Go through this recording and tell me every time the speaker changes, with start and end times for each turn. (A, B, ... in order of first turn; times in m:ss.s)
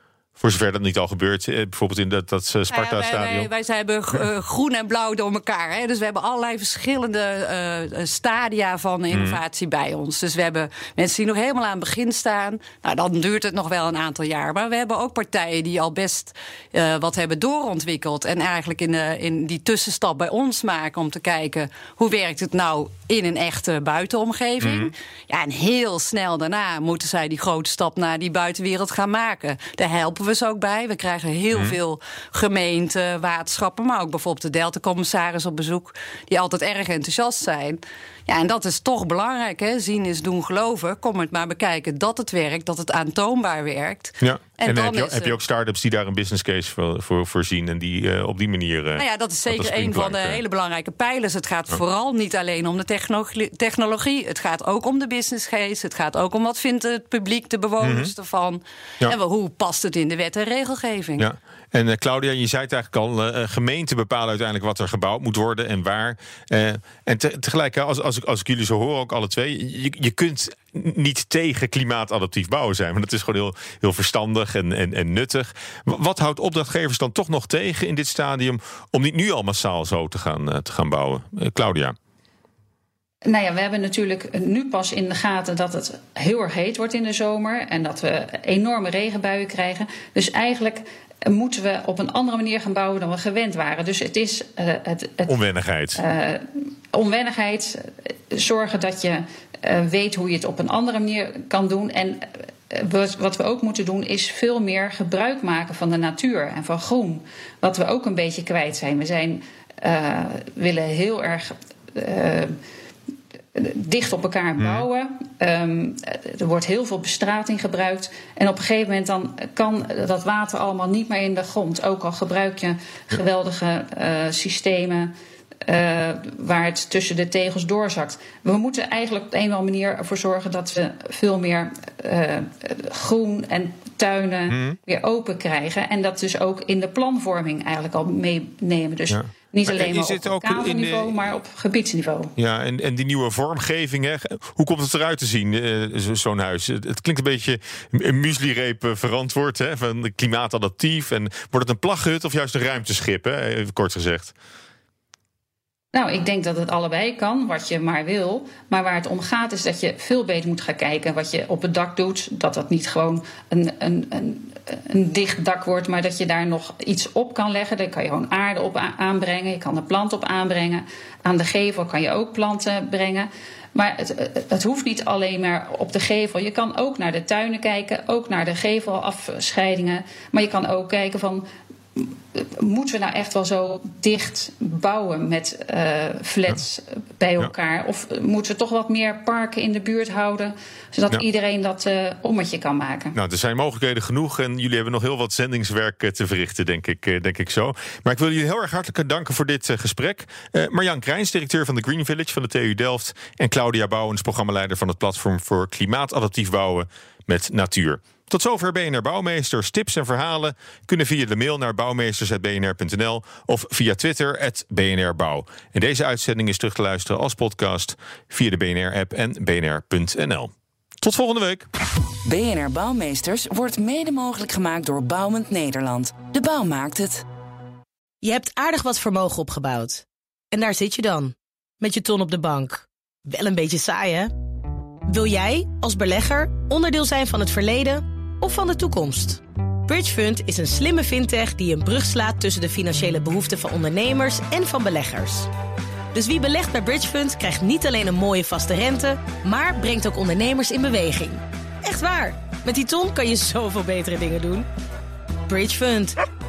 0:00.4-0:03.5 A
0:02.7-0:45.4 B
0:09.1-0:09.4 A
0:24.6-0:24.9 A
0:44.2-0:50.4 A
0:49.0-1:01.3 B
0:57.8-0:58.1 A
1:01.2-1:22.0 A
1:23.3-1:35.4 C
1:35.3-1:36.0 A
1:36.0-1:52.6 C
1:53.6-2:05.1 C
1:54.6-1:54.8 A
2:05.7-2:22.3 C
2:14.5-2:14.8 A
2:19.1-2:21.1 A
2:22.4-2:34.3 A
2:35.9-3:13.2 C
3:13.1-3:41.7 A
3:42.3-3:47.2 D
3:48.2-3:54.3 E
3:55.1-4:05.5 E
4:06.1-4:14.7 E
4:15.5-4:16.2 E